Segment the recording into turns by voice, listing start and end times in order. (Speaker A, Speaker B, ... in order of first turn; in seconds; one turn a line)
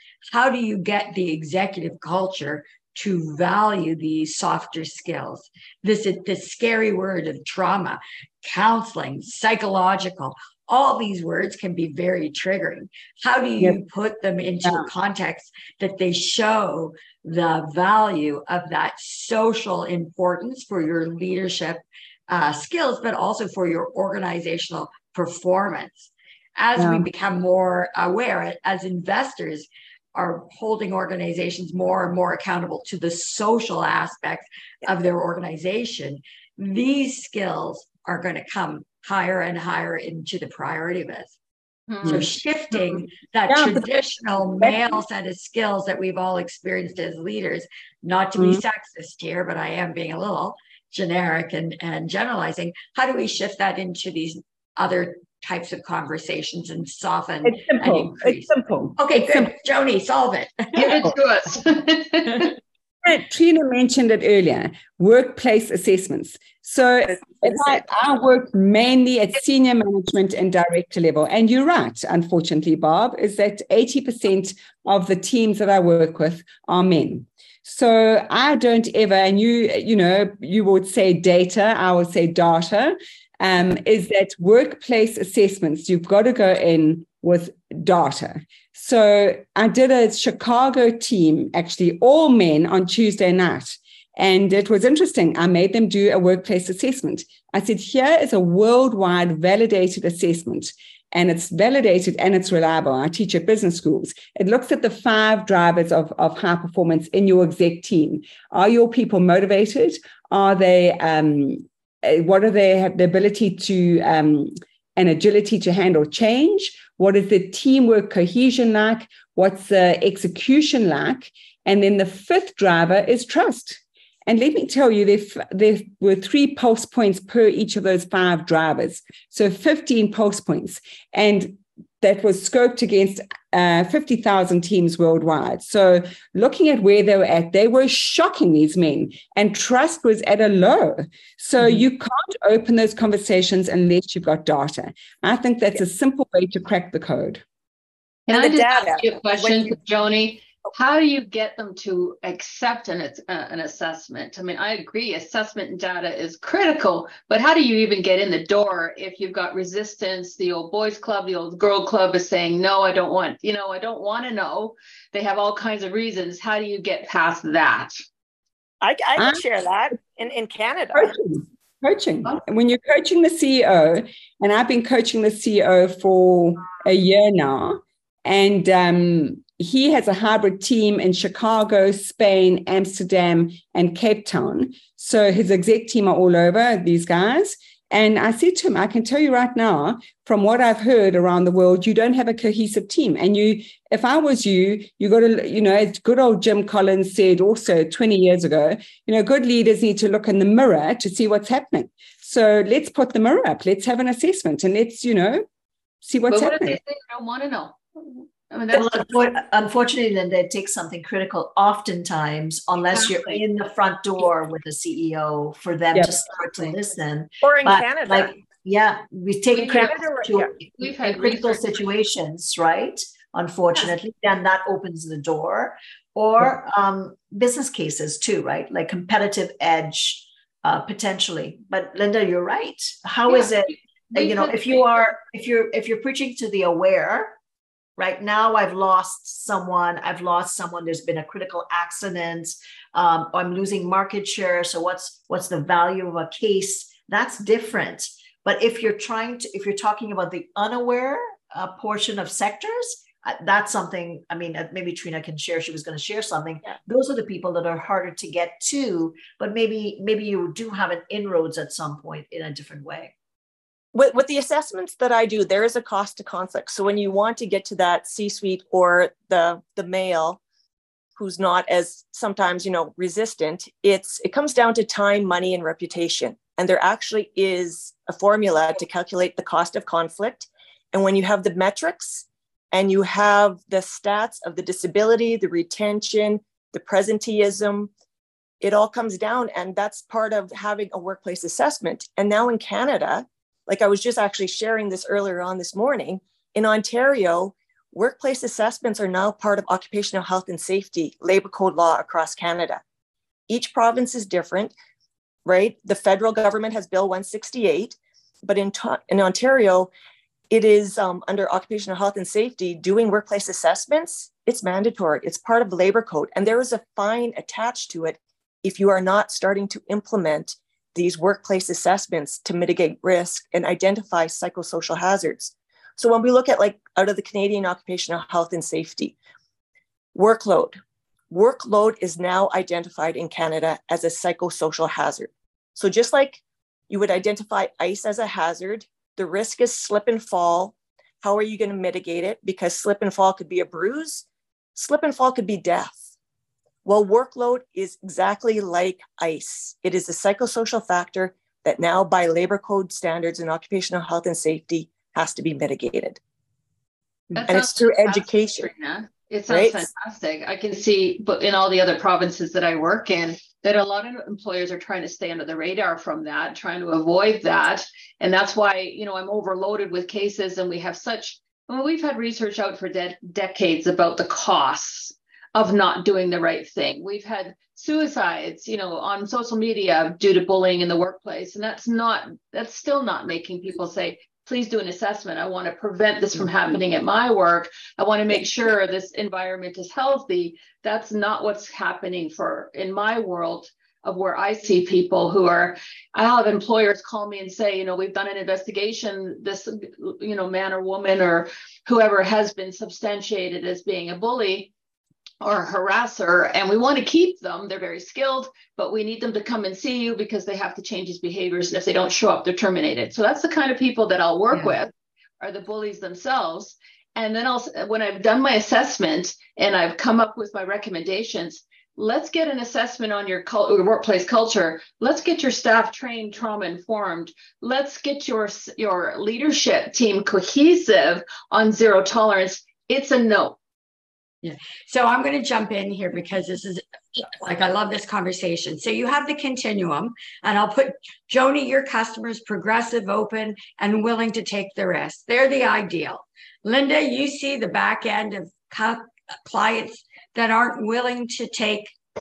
Speaker A: 0.3-41.3
Speaker B: 26.8-27.1
Speaker C: 41.9-42.2
Speaker A: 42.0-61.1
Speaker B: 43.5-43.8
Speaker B: 44.6-44.9
Speaker B: 48.4-48.6
Speaker B: 57.4-59.4
Speaker C: 60.7-62.5
Speaker B: 63.0-147.4
Speaker C: 148.3-167.9
Speaker D: 148.3-149.8
Speaker D: 168.8-171.1
Speaker B: 169.2-169.4
Speaker B: 170.9-205.4
Speaker B: 206.0-206.8
Speaker C: 206.3-209.3
Speaker E: 208.7-237.3
Speaker C: 212.9-213.4
Speaker B: 215.9-216.2
Speaker D: 217.4-218.3
Speaker C: 219.5-221.9
Speaker C: 233.3-235.1
Speaker E: 238.0-263.1
Speaker D: 263.9-270.4
Speaker D: 271.2-287.9
Speaker D: 288.6-302.8
Speaker D: 303.5-304.7
Speaker D: 305.4-309.9
Speaker D: 310.5-329.1
Speaker D: 330.1-330.8
Speaker D: 331.3-344.2
Speaker D: 344.8-346.0
Speaker D: 346.8-356.2
Speaker C: 357.3-404.7
Speaker D: 357.4-358.7
Speaker D: 359.5-359.9
Speaker C: 405.4-433.6
Speaker A: 434.4-451.9